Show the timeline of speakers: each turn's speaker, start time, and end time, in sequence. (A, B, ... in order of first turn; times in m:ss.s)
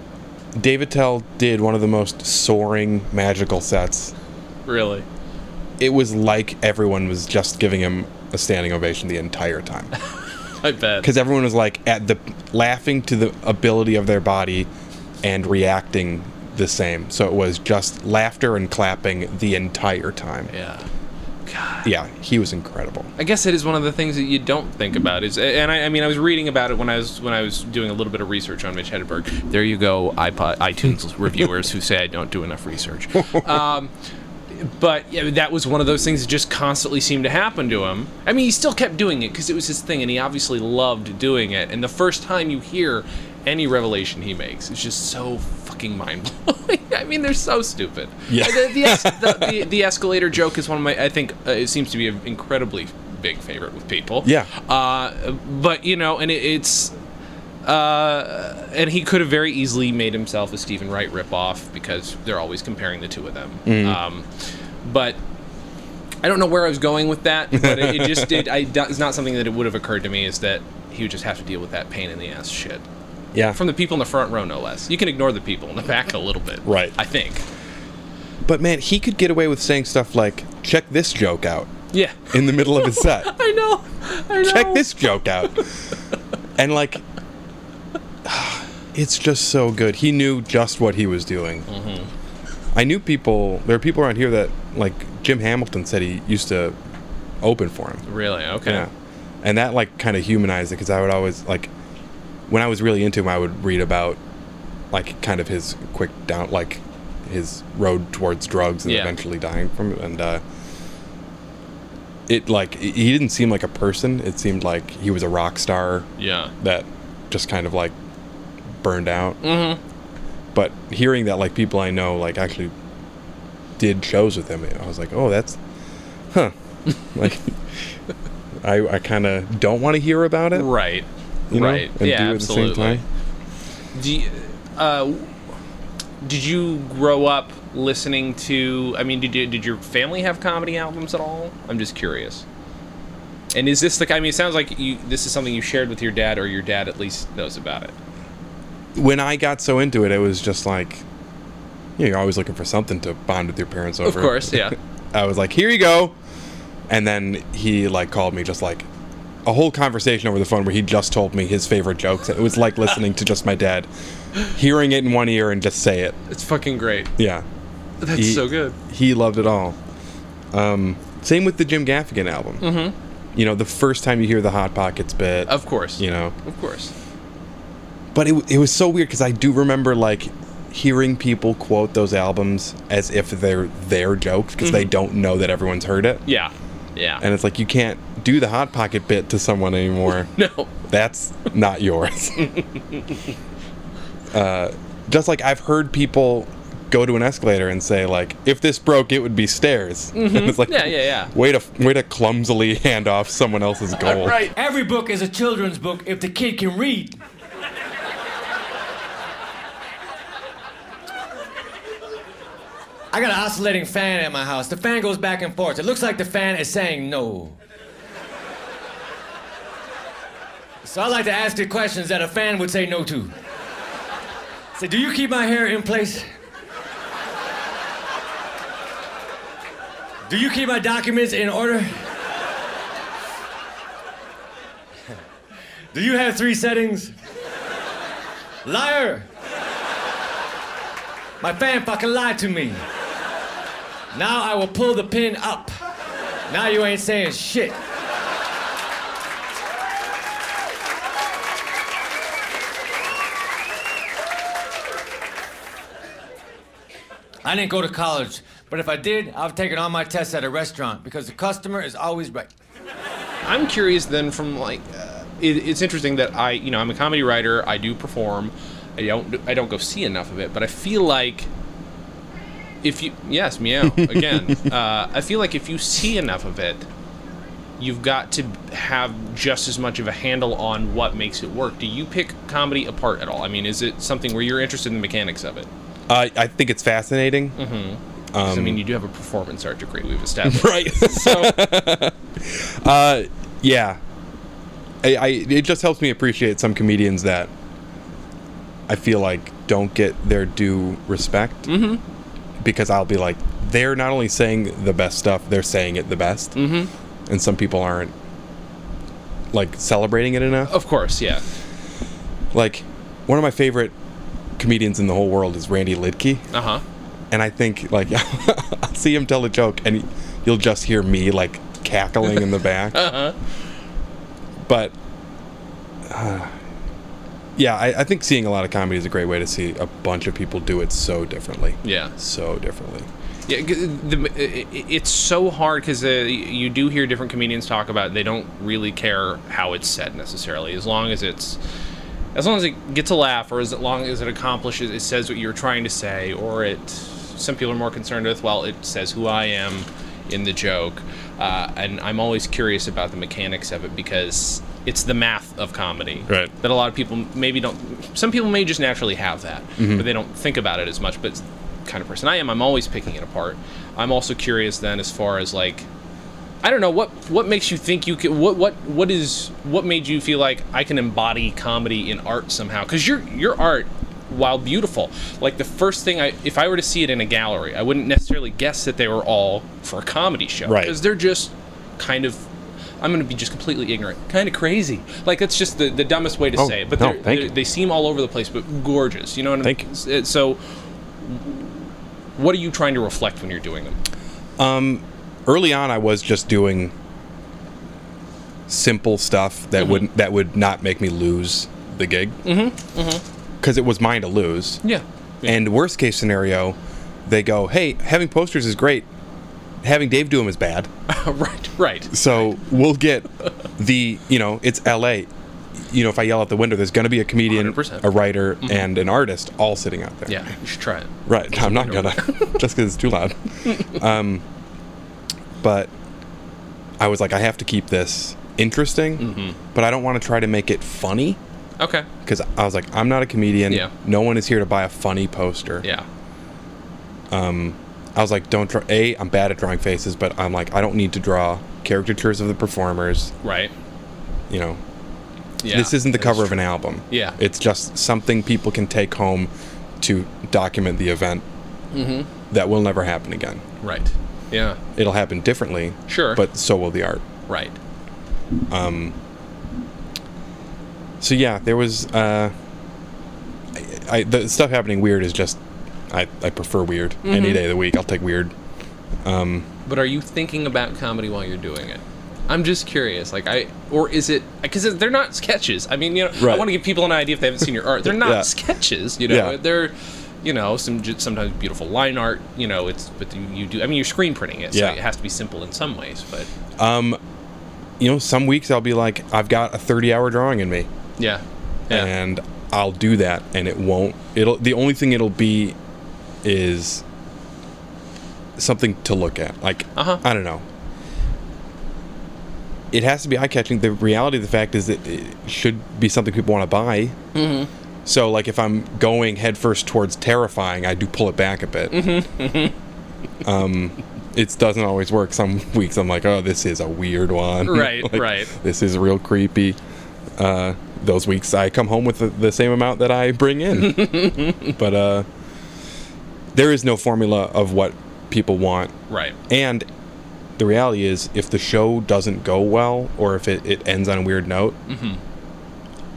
0:00.5-0:04.1 A
0:04.6-0:05.0 B
0:05.8-0:09.9 A
0:10.6-0:11.1 B
0:11.0-0:14.7 A
0:15.2-0:20.5 A
0:20.5-0:20.8 B
0:21.4-0:21.9 B
0:21.8-0:23.1 A
0:23.2-0:33.9 B
0:34.5-0:56.9 B
0:48.3-0:49.6 A
0:54.2-0:54.5 A
0:57.6-1:04.2 B
1:03.6-1:04.0 A
1:04.8-1:05.2 B
1:06.2-1:12.8 B
1:07.5-1:08.5 A
1:13.5-1:17.4 B
1:16.6-1:17.0 A
1:18.4-1:21.7 A
1:21.9-1:24.9 B
1:22.3-1:23.3 A
1:24.4-1:25.7 A
1:26.6-1:27.0 A
1:28.2-1:31.7 A
1:31.7-1:32.1 B
1:32.7-1:36.7 A
1:37.4-1:38.0 A
1:38.0-1:38.8 B
1:38.6-1:38.9 A
1:39.4-1:41.7 A
1:42.5-1:44.2 A
1:44.9-1:50.4 A
1:48.8-1:49.1 B
1:52.3-1:56.1 A
1:56.2-1:56.5 B
1:56.6-1:57.9 A
1:58.8-1:59.4 A
1:59.4-1:59.8 B
2:00.5-2:02.7 A
2:03.8-2:05.6 A
2:07.0-2:07.5 A
2:08.6-2:10.7 A
2:10.5-2:13.0 B
2:11.5-2:13.0 A
2:13.9-2:15.3 B
2:16.2-2:22.4 B
2:23.5-2:27.9 B
2:28.9-2:31.0 A
2:32.0-2:36.2 A
2:34.0-2:34.8 B
2:36.9-2:38.9 A
2:39.4-2:43.9 A
2:44.4-2:46.2 A
2:46.3-2:47.1 B
2:47.2-2:47.4 A
2:48.0-2:48.8 B
2:48.1-2:49.8 A
2:50.5-2:52.7 A
2:52.6-2:52.9 B
2:53.3-2:56.3 A
2:55.5-2:56.9 B
2:58.1-3:06.2 A
3:04.6-3:04.9 B
3:06.2-3:07.2 B
3:07.2-3:10.3 A
3:10.3-3:10.7 B
3:10.9-3:12.5 A
3:12.4-3:13.1 B
3:14.3-3:24.4 A
3:20.1-3:21.3 B
3:24.0-3:24.5 B
3:24.5-3:27.2 C
3:33.1-3:37.6 C
3:40.8-3:43.3 C
3:44.8-3:46.2 C
3:50.3-3:52.0 C
3:55.9-3:57.1 C
3:58.6-3:59.3 C
4:01.4-4:02.8 C
4:04.1-4:05.8 C
4:06.5-4:07.8 C
4:17.4-4:22.5 C
4:23.4-4:31.5 B
4:32.8-4:36.8 B
4:37.8-4:45.7 B
4:46.1-4:47.6 A
4:47.6-4:51.7 B
4:48.3-4:48.8 A
4:50.4-4:54.0 A
4:55.0-4:57.5 A
4:58.9-5:01.7 A
5:01.6-5:02.0 B
5:02.6-5:06.6 A
5:06.5-5:06.9 B
5:07.3-5:08.1 A
5:09.5-5:10.7 A
5:10.6-5:11.4 B
5:12.5-5:13.9 A
5:14.6-5:16.5 A
5:16.5-5:16.8 B
5:17.3-5:23.1 A
5:22.9-5:23.4 B
5:24.6-5:24.9 A
5:26.0-5:26.6 A
5:27.6-5:33.1 A
5:31.8-5:32.1 B
5:33.5-5:41.6 B
5:42.3-6:05.9 B
5:56.3-5:56.5 A
5:59.8-6:00.0 A
6:06.6-6:22.4 B
6:20.6-6:21.0 A
6:23.0-6:30.6 B
6:26.6-6:27.5 A
6:31.2-6:34.0 B
6:34.6-6:36.9 A
6:38.7-6:42.4 A
6:39.8-6:40.0 B
6:42.4-6:43.2 B
6:43.6-6:44.8 A
6:44.8-6:45.6 B
6:45.4-6:49.1 A
6:49.8-6:50.9 A
6:51.1-6:52.5 B
6:52.1-7:00.4 A
6:57.5-6:58.8 B
7:00.3-7:02.5 B
7:01.2-7:04.4 A
7:05.6-7:05.9 A
7:07.0-7:11.4 A
7:09.2-7:09.6 B
7:11.8-7:12.1 B
7:12.2-7:15.8 A
7:17.3-7:23.3 A
7:23.4-7:23.7 B
7:24.5-7:24.8 A
7:25.6-7:27.4 B
7:25.7-7:31.4 A
7:31.9-7:32.3 B
7:32.5-7:33.6 A
7:33.8-7:34.8 B
7:34.9-7:37.2 A
7:36.1-7:36.4 B
7:37.5-7:37.8 B
7:38.7-7:39.2 A
7:41.2-7:42.5 A
7:43.7-7:48.5 A
7:47.2-7:47.6 B
7:49.2-7:49.7 A
7:49.8-8:06.5 B
7:56.4-7:56.7 A
7:58.0-7:58.5 A
7:59.2-7:59.6 A
8:04.7-8:05.0 A
8:06.8-8:07.2 A
8:08.0-8:10.9 A
8:11.2-8:12.1 B
8:11.9-8:15.8 A
8:16.4-8:17.0 A
8:18.6-8:20.6 A
8:20.0-8:20.2 B
8:22.9-8:27.2 A
8:27.3-8:27.7 B
8:28.0-8:32.1 A
8:31.9-8:32.7 B
8:33.4-8:39.8 A
8:37.6-8:38.5 B
8:40.4-8:45.2 A
8:44.0-8:44.6 B
8:46.5-8:48.9 A
8:49.1-8:49.4 B
8:49.5-8:49.8 A
8:50.6-8:54.8 A
8:54.9-8:55.2 B